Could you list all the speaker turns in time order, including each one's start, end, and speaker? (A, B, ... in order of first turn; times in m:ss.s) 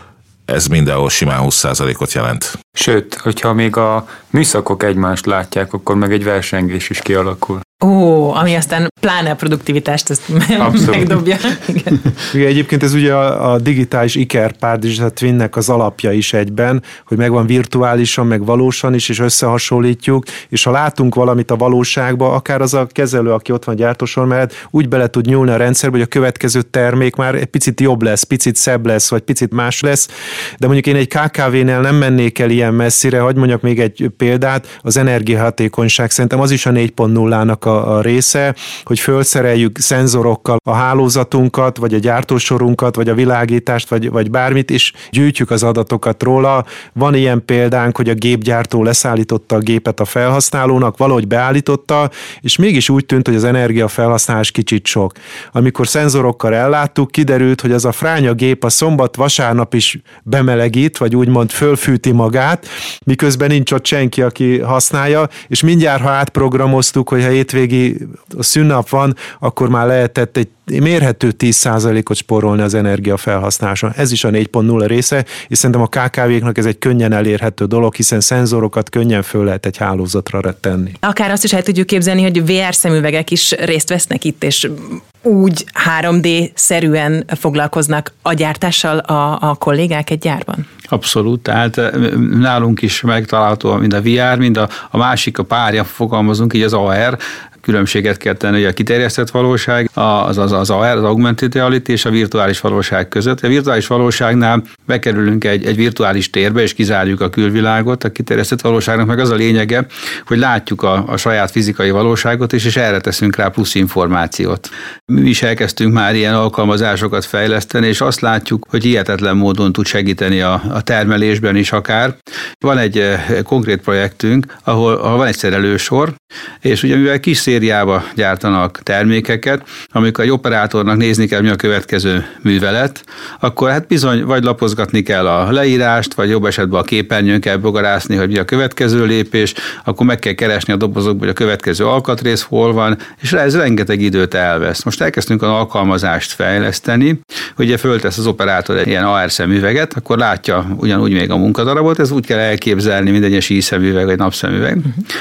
0:00.5-0:02.6 A
0:02.8-0:07.6 B
0:07.8-0:12.0 C
0:10.6-0:11.1 B
0:12.3-1:21.0 D
1:21.0-1:30.7 C
1:30.9-2:35.0 E